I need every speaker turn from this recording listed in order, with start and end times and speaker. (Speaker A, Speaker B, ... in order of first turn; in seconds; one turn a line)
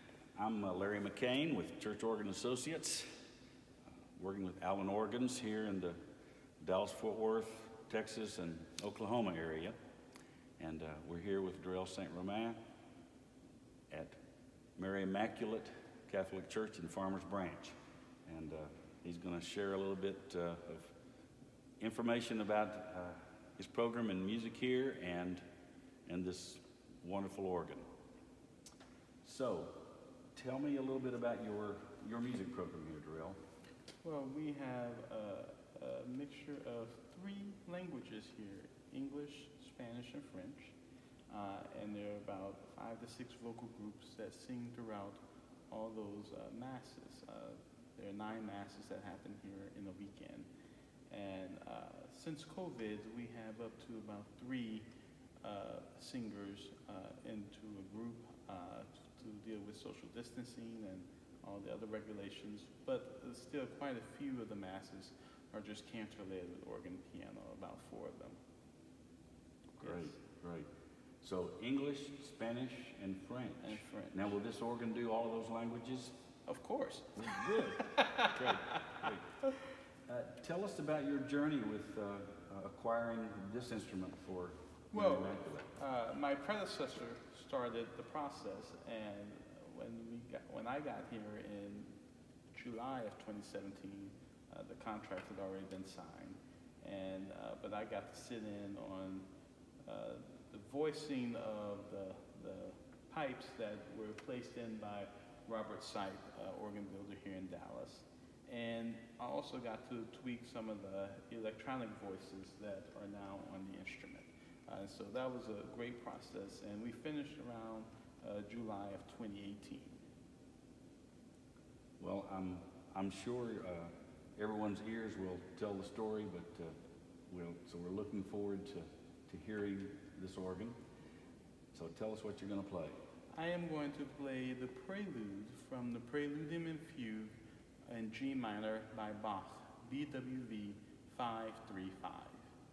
Speaker A: 0.4-3.3
Speaker A: 4.2-6.0
Speaker A: 6.6-9.8
Speaker A: 10.6-12.6
Speaker A: 13.9-14.2
Speaker A: 14.8-21.0
Speaker A: 21.8-25.4
Speaker A: 26.1-27.9
Speaker A: 29.2-33.4
Speaker B: 34.0-40.8
Speaker B: 41.3-50.5
Speaker B: 51.1-54.9
Speaker B: 55.4-68.4
Speaker B: 69.8-70.2
Speaker A: 69.8-70.7
Speaker A: 71.2-76.2
Speaker B: 73.6-74.3
Speaker B: 76.5-79.1
Speaker A: 77.2-79.3
Speaker A: 80.1-85.7
Speaker B: 84.9-92.0
Speaker B: 92.5-99.3
Speaker B: 99.8-120.0
Speaker A: 122.0-126.8
Speaker A: 127.3-130.8
Speaker A: 131.7-133.0
Speaker B: 133.3-142.5